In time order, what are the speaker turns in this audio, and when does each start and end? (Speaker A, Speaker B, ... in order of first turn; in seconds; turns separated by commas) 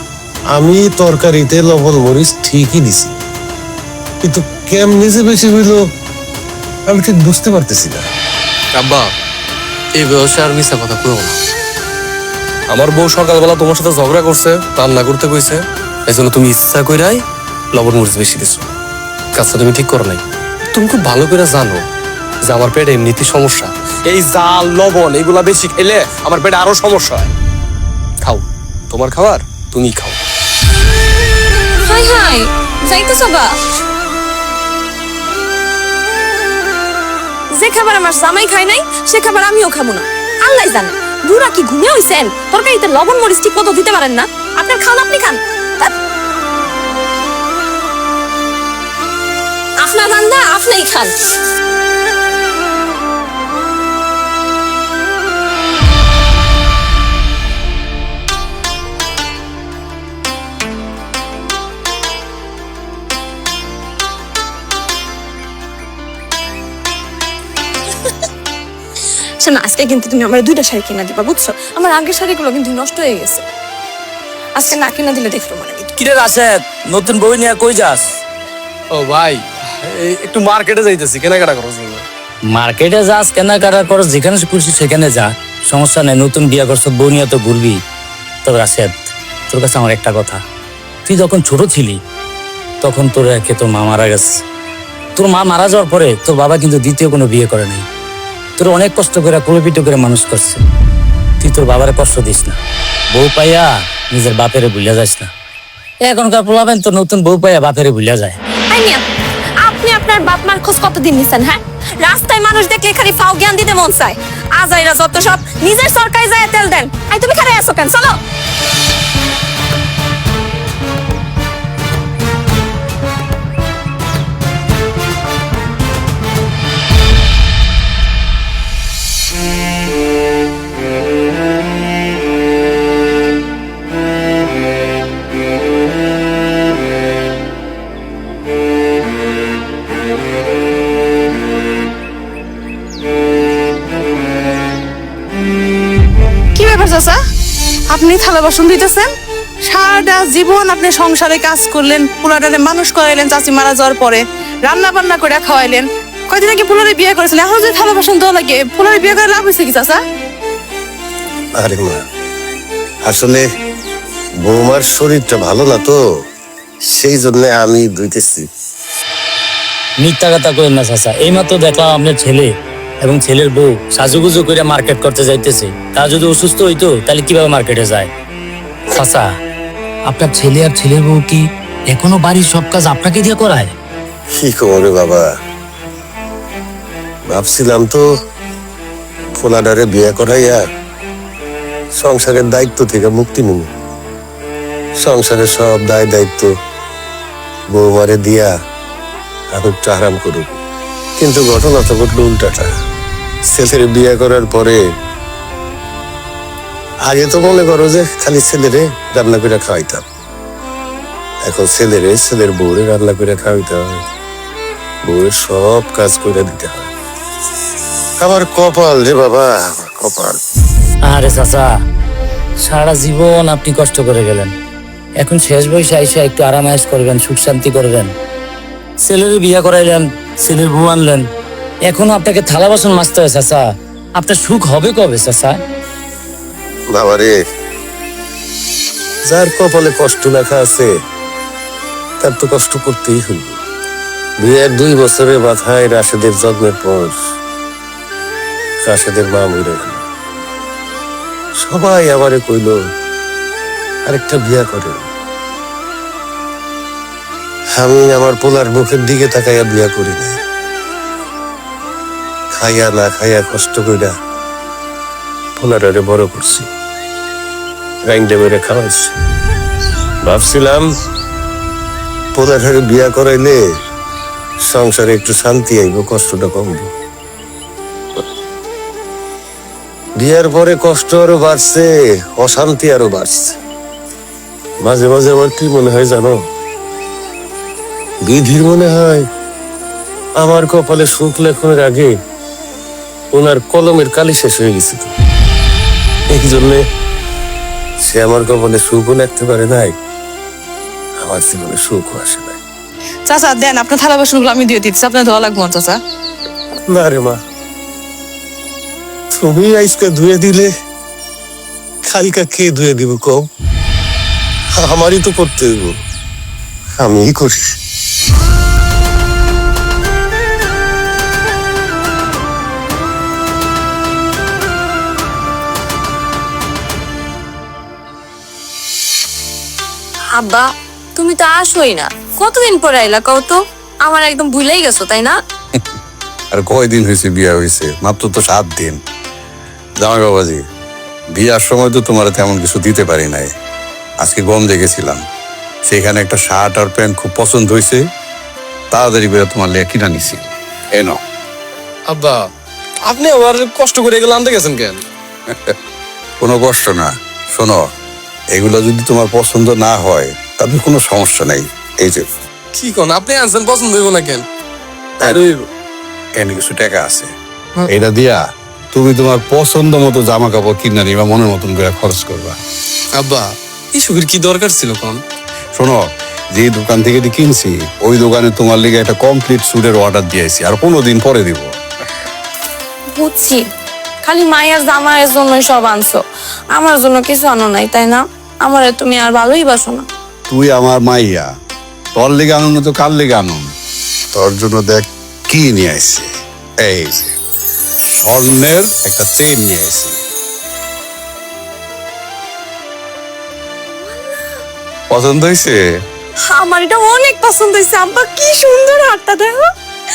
Speaker A: 0.5-3.2, Speaker A: 4.2-5.8, Speaker A: 6.9-8.1, Speaker B: 8.7-9.1, Speaker C: 10.0-11.4, Speaker B: 12.7-15.6, Speaker C: 16.1-17.2, Speaker C: 17.7-18.7, Speaker C: 19.4-20.2, Speaker C: 20.7-21.8, Speaker B: 22.5-27.3, Speaker C: 22.5-23.7, Speaker B: 28.2-30.2, Speaker D: 31.8-33.6, Speaker D: 37.5-45.9, Speaker D: 49.8-51.1, Speaker D: 69.4-73.5, Speaker D: 74.5-75.9, Speaker E: 76.0-78.1, Speaker B: 78.9-82.0, Speaker E: 82.5-87.8, Speaker E: 88.4-90.4, Speaker E: 91.0-92.0, Speaker E: 92.8-94.4, Speaker E: 95.2-97.8, Speaker E: 98.6-100.6, Speaker E: 101.4-102.6, Speaker E: 103.1-105.3, Speaker E: 106.0-108.4, Speaker D: 108.7-109.0, Speaker D: 109.6-118.2, Speaker F: 146.5-147.2, Speaker F: 147.9-149.1, Speaker F: 149.7-160.0, Speaker A: 161.6-162.1, Speaker A: 163.0-163.4, Speaker A: 164.4-166.0, Speaker A: 166.8-168.5, Speaker E: 170.0-178.1, Speaker E: 178.9-179.3, Speaker E: 180.1-183.7, Speaker A: 184.3-185.3, Speaker A: 187.3-188.1, Speaker A: 189.4-190.6, Speaker A: 192.0-193.7, Speaker A: 195.0-196.5, Speaker A: 197.7-198.5, Speaker A: 199.5-200.6, Speaker A: 201.2-202.7, Speaker A: 203.4-204.8, Speaker A: 207.1-210.1, Speaker A: 211.4-214.0, Speaker A: 215.0-216.9, Speaker A: 218.2-220.4, Speaker E: 221.1-221.7, Speaker E: 222.6-224.5, Speaker E: 225.2-228.1, Speaker E: 229.0-231.3, Speaker E: 231.9-233.7, Speaker E: 234.2-235.6, Speaker A: 236.9-237.3, Speaker A: 239.3-240.9, Speaker A: 242.2-243.6, Speaker A: 244.4-247.2, Speaker A: 248.8-250.0, Speaker A: 251.6-252.8, Speaker A: 254.1-255.1, Speaker A: 257.7-260.4, Speaker A: 262.5-264.1, Speaker A: 265.6-266.7, Speaker A: 268.1-269.1, Speaker A: 270.2-270.9, Speaker A: 272.3-273.6, Speaker A: 274.6-276.9, Speaker A: 280.2-283.6, Speaker A: 284.8-286.4, Speaker A: 288.2-289.2, Speaker A: 290.4-292.1, Speaker A: 293.3-295.1, Speaker A: 296.3-296.8, Speaker A: 298.0-299.9, Speaker A: 301.2-302.6, Speaker F: 303.3-306.0, Speaker A: 306.9-307.4, Speaker A: 309.3-310.7, Speaker A: 312.0-313.5, Speaker A: 314.7-316.0, Speaker A: 317.0-317.8, Speaker D: 330.3-335.4, Speaker G: 336.5-339.0, Speaker G: 340.0-340.6, Speaker G: 341.3-343.5, Speaker G: 344.2-345.2, Speaker G: 345.8-348.0, Speaker G: 348.9-351.2, Speaker B: 352.1-352.4, Speaker B: 353.1-355.0, Speaker G: 355.5-355.8, Speaker G: 356.4-357.9, Speaker G: 358.5-362.3, Speaker B: 362.7-364.4, Speaker B: 365.2-365.6, Speaker G: 366.4-367.3, Speaker G: 367.9-372.6, Speaker C: 373.2-375.2, Speaker G: 375.7-381.7, Speaker D: 383.1-383.7, Speaker D: 384.2-386.2, Speaker D: 386.7-390.1, Speaker G: 390.5-391.5, Speaker G: 392.1-393.7, Speaker G: 394.3-397.3, Speaker G: 398.1-400.2, Speaker G: 405.1-405.8, Speaker D: 406.5-409.7